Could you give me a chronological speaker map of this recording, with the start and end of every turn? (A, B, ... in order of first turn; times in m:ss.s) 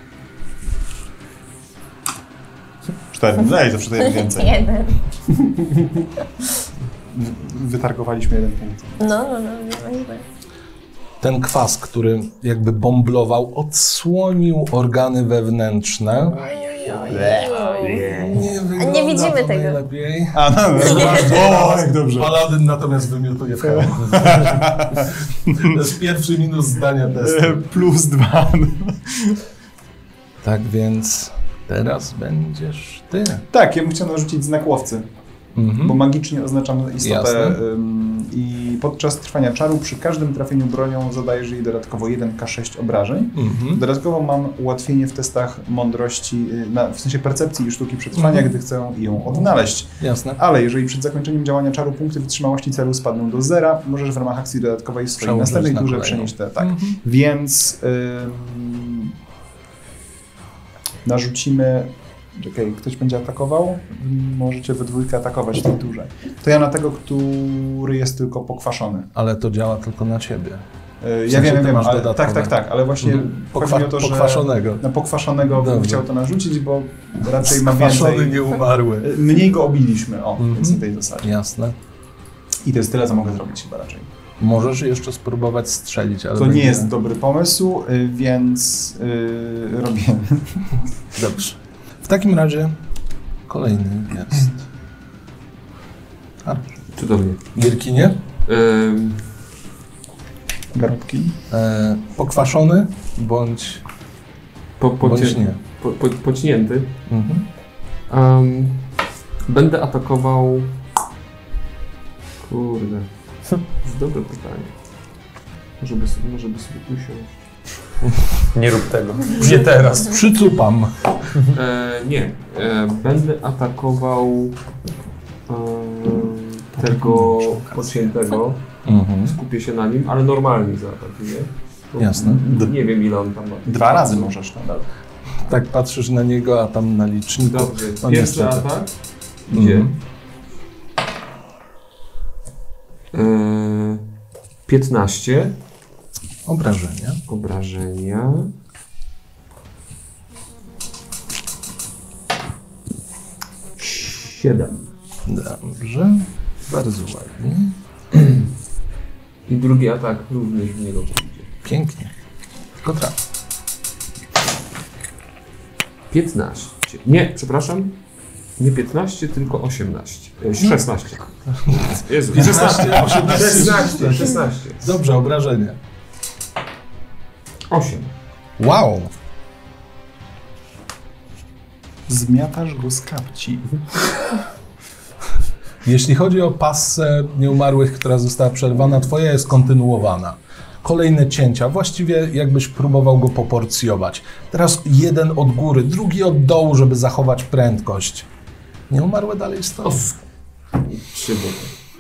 0:03.1-0:04.6 A
0:04.0-0:05.0 B
0:05.5-0:05.8 A
0:07.1-0:09.1 A
0:09.0-0:10.2 B
0:11.2-0:16.4 C
0:16.3-0:18.1 B
0:17.0-0:18.4 D
0:18.1-0:25.0 C
0:18.8-0:19.8 B
0:20.3-0:22.3 A
0:23.6-0:25.8 A
0:25.5-0:27.6 C
0:27.2-0:29.4 A
0:30.4-0:33.5 C
0:33.5-0:35.1 A
0:35.6-0:36.0 C
0:35.8-0:59.1 A
0:37.0-0:37.6 C
0:43.4-0:43.8 C
0:48.1-0:48.6 C
0:50.0-0:50.4 C
0:55.2-0:57.0 C
1:01.0-1:09.1 A
1:09.2-1:10.7 C
1:11.0-1:18.4 A
1:11.3-1:14.9 C
1:15.5-1:16.1 C
1:17.4-1:19.2 C
1:19.0-1:21.3 A
1:20.4-1:21.8 C
1:22.6-1:24.1 A
1:24.4-1:26.9 C
1:26.4-1:30.7 A
1:31.2-1:32.8 C
1:33.5-1:34.6 C
1:36.4-1:36.7 C
1:37.0-1:37.4 E
1:37.5-1:38.2 C
1:38.5-1:39.2 E
1:40.7-1:41.4 A
1:41.5-1:43.8 C
1:44.8-1:46.9 E
1:45.0-1:45.6 C
1:47.1-1:47.5 C
1:48.1-1:48.9 E
1:49.5-1:50.8 E
1:52.4-1:53.1 E
1:53.7-1:54.7 E
1:55.8-1:57.4 E
1:58.5-2:00.2 D
2:00.0-2:01.2 C
2:01.5-2:04.6 E
2:05.5-2:08.7 E
2:06.8-2:07.9 C
2:08.8-2:09.4 C
2:09.3-2:14.3 E
2:12.0-2:12.7 C
2:13.7-2:14.9 A
2:15.4-2:18.7 C
2:17.4-2:18.9 E
2:19.5-2:19.9 E
2:19.5-2:20.0 C
2:23.1-2:24.0 E
2:24.7-2:25.6 E
2:26.4-2:27.2 C
2:27.3-2:28.5 E
2:33.8-2:34.9 E
2:35.3-2:37.8 C
2:39.5-2:41.5 E
2:41.6-2:42.1 C
2:42.8-2:43.2 C
2:46.1-2:48.0 E
2:48.6-2:54.9 E
2:51.5-2:55.8 C
2:57.7-2:58.1 E
2:58.6-2:59.1 C
3:02.1-3:03.8 A
3:05.8-3:18.3 C
3:18.9-3:20.1 C
3:19.8-3:20.2 E
3:20.8-3:21.7 E